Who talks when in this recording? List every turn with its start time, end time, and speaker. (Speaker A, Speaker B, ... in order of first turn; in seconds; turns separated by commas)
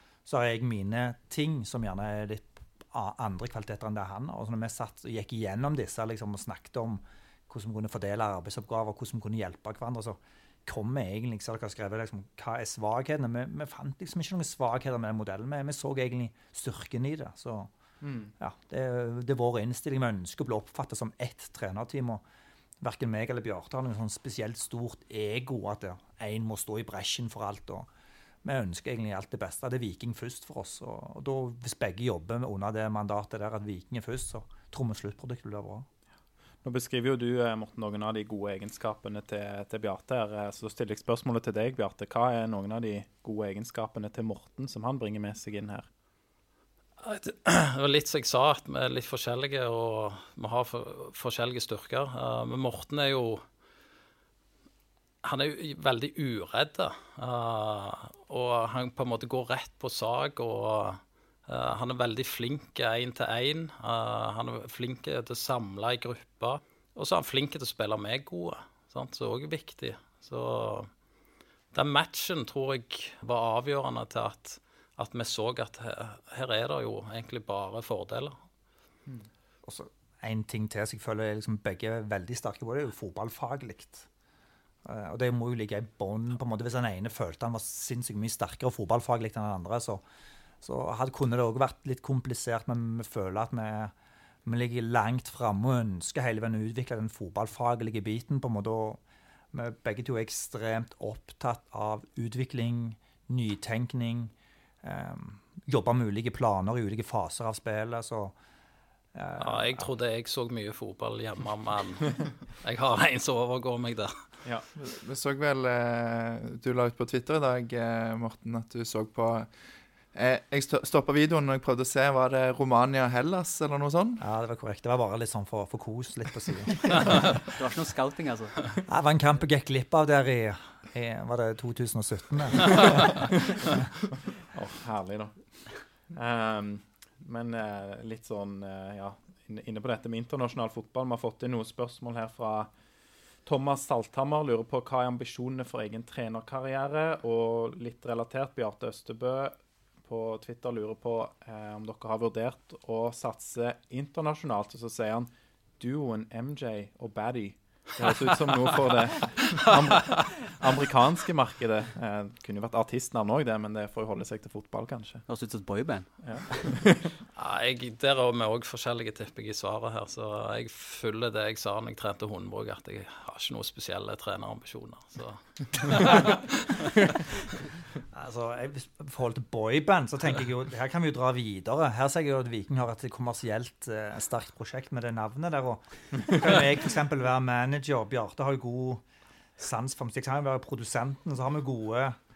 Speaker A: 0.2-17.7, Speaker B: 18.0-18.3, Speaker A: 18.4-22.2, Speaker A: 22.8-27.9, Speaker A: 28.4-35.9, Speaker B: 36.6-45.9, Speaker C: 47.0-53.4, Speaker C: 55.2-70.9, Speaker C: 71.7-78.3, Speaker A: 79.6-84.1, Speaker A: 84.8-90.0, Speaker A: 90.6-93.9, Speaker A: 94.5-99.0, Speaker A: 99.5-108.3, Speaker A: 109.1-109.9, Speaker C: 109.4-114.2, Speaker D: 114.8-119.5, Speaker D: 120.1-124.2, Speaker A: 124.2-127.3, Speaker E: 127.4-128.6, Speaker A: 128.8-133.2, Speaker B: 134.5-142.7, Speaker B: 143.4-165.2, Speaker C: 159.5-160.4, Speaker E: 165.3-166.7, Speaker B: 166.2-167.1, Speaker C: 167.3-177.5, Speaker A: 178.1-189.0, Speaker A: 189.6-192.2